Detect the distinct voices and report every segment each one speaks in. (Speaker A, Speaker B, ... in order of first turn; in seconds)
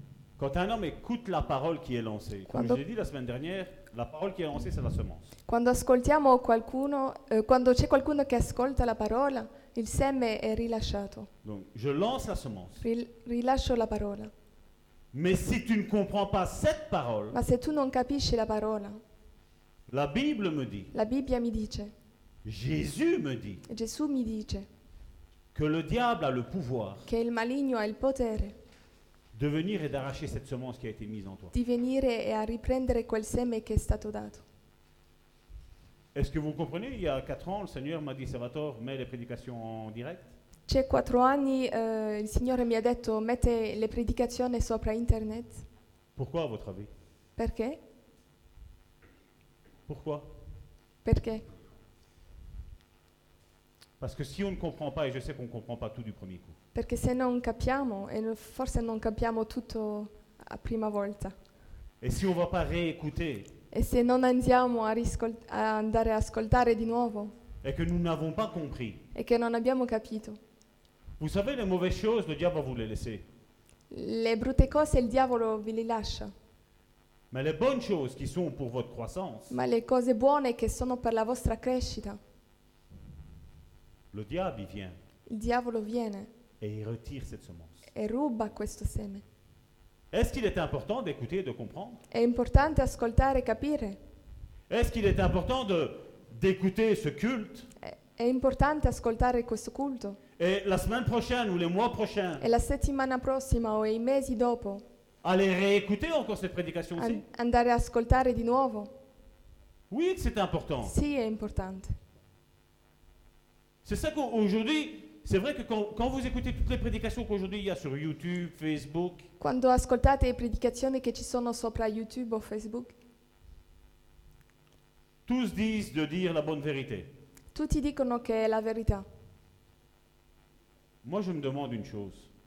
Speaker A: 0.4-5.3, 11.4-12.8, 15.1-17.4, 19.9-20.9, 22.4-23.6, 25.5-27.1, 29.3-31.5, 36.1-40.3, 46.2-46.9, 49.9-50.4, 54.0-56.6, 62.0-63.5, 67.6-69.0, 71.2-73.2, 77.3-79.6, 84.1-85.0, 86.6-87.8, 90.1-92.0, 94.7-97.7, 100.4-102.4, 105.2-107.2, 109.9-110.9, 113.8-119.3, 125.3-127.1, 131.0-132.3
Speaker B: 2.5-2.8, 5.5-11.3, 12.8-14.3, 17.3-19.0, 20.9-21.9, 23.7-24.7, 27.1-28.6, 31.5-34.5, 40.7-45.6, 47.4-47.8, 51.0-51.5, 56.7-61.4, 63.7-67.3, 69.1-70.4, 73.9-76.3, 79.5-82.2, 85.3-86.3, 87.9-89.2, 92.1-94.0, 97.8-100.2, 102.4-104.8, 107.0-108.9, 110.8-111.9, 119.4-123.0, 127.5-129.1